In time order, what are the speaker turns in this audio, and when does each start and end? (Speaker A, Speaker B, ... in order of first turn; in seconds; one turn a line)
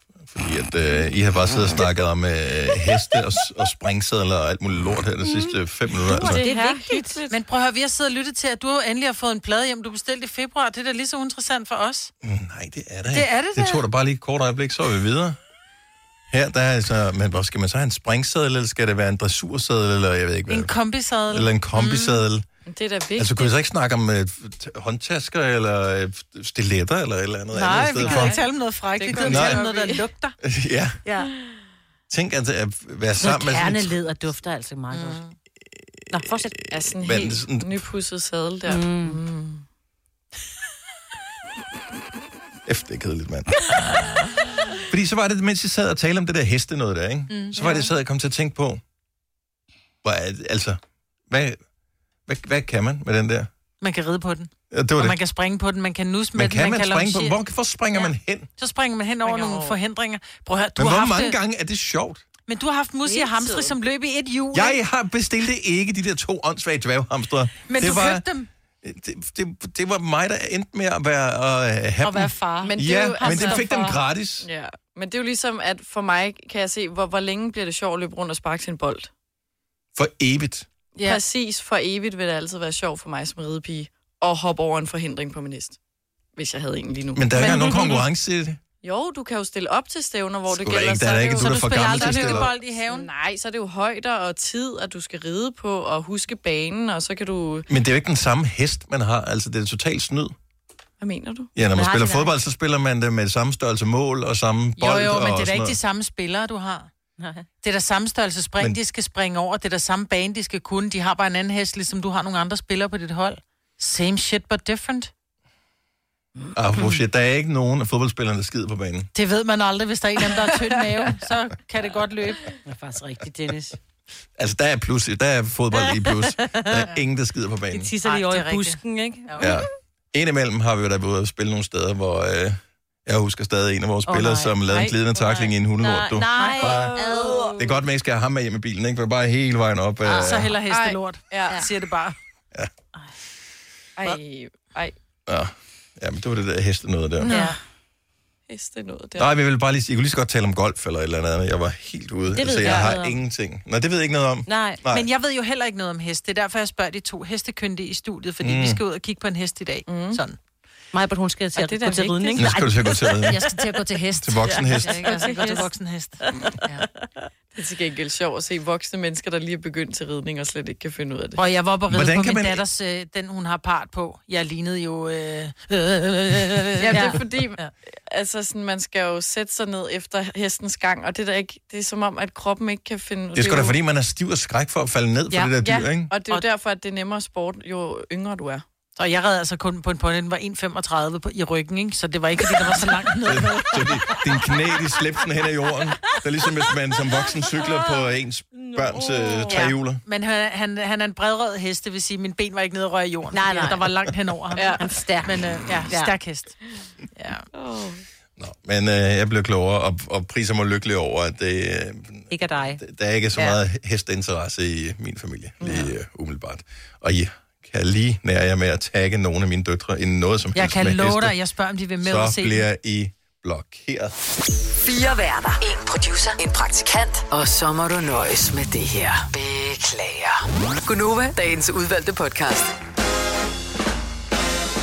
Speaker A: 0.2-6.4
Speaker B: 6.1-7.3
Speaker C: 6.2-7.3
Speaker D: 6.4-12.1
Speaker A: 12.2-15.4
Speaker D: 13.1-13.8
Speaker A: 16.3-20.7
Speaker D: 20.5-21.8
Speaker A: 21.3-22.4
Speaker B: 22.7-23.5
Speaker A: 23.2-28.3
Speaker D: 27.5-30.4
Speaker B: 27.9-28.4
Speaker B: 29.0-30.0
Speaker A: 29.2-29.6
Speaker A: 30.4-31.0
Speaker A: 32.1-33.9
Speaker C: 33.2-35.2
Speaker C: 36.1-36.6
Speaker A: 36.1-37.8
Speaker B: 36.7-39.6
Speaker C: 38.6-39.2
Speaker A: 42.6-43.7
Speaker A: 44.9-48.8
Speaker D: 47.3-47.9
Speaker A: 50.0-51.6
Speaker A: 52.3-53.5
Speaker D: 53.8-57.4
Speaker A: 54.7-55.2
Speaker A: 56.3-58.5
Speaker D: 58.6-61.4
Speaker B: 59.2-59.8
Speaker A: 60.8-62.2
Speaker D: 62.5-64.8
Speaker C: 63.1-63.6
Speaker A: 64.5-68.2
Speaker D: 67.7-68.5
Speaker A: 68.8-74.5
Speaker D: 72.0-74.0
Speaker B: 72.6-73.7
Speaker B: 74.4-79.1
Speaker A: 79.9-80.7
Speaker B: 81.0-85.8
Speaker B: 86.3-87.7
Speaker A: 87.1-88.6
Speaker D: 87.4-88.0
Speaker B: 88.8-97.7
Speaker A: 90.5-92.5
Speaker D: 91.3-93.1
Speaker A: 97.7-100.3
Speaker B: 101.0-101.5
Speaker A: 101.5-105.8
Speaker C: 101.7-102.3
Speaker D: 104.8-106.9
Speaker C: 107.2-107.4
Speaker D: 107.6-115.1
Speaker A: 116.5-119.1
Speaker D: 119.1-122.5
Speaker C: 122.7-123.8
Speaker A: 124.4-127.9
Speaker C: 125.8-126.8
Speaker C: 127.7-129.6
Speaker D: 128.0-129.5
Speaker A: 129.4-136.9
Speaker C: 134.1-137.8
Speaker B: 136.4-137.6
Speaker A: 137.6-140.5
Speaker D: 140.0-142.2
Speaker B: 140.7-141.7
Speaker B: 144.0-144.9
Speaker A: 145.3-147.3
Speaker C: 147.3-147.5
Speaker D: 147.3-147.6
Speaker B: 148.5-149.3
Speaker A: 149.2-155.1
Speaker C: 152.3-153.2
Speaker B: 152.6-152.9
Speaker C: 154.4-154.8
Speaker D: 154.9-160.4
Speaker A: 158.4-158.8
Speaker B: 159.9-160.2
Speaker C: 160.9-164.2
Speaker B: 161.6-162.6
Speaker A: 162.3-163.4
Speaker D: 163.4-166.8
Speaker A: 164.2-164.9
Speaker B: 164.5-165.6
Speaker C: 164.7-165.7
Speaker B: 167.5-171.4
Speaker D: 171.3-177.7
Speaker A: 171.9-172.6
Speaker B: 176.8-183.8
Speaker A: 183.3-186.1
Speaker B: 185.6-188.6
Speaker D: 188.9-194.2
Speaker A: 193.3-200.0
Speaker C: 198.6-199.7
Speaker D: 199.5-206.6
Speaker C: 203.3-203.9
Speaker B: 204.6-204.9
Speaker C: 204.8-206.2
Speaker D: 207.2-207.4
Speaker B: 207.5-208.0
Speaker A: 208.4-221.3
Speaker C: 212.3-212.8
Speaker B: 215.6-215.9
Speaker D: 220.5-222.7
Speaker A: 222.0-224.1
Speaker E: 224.7-232.7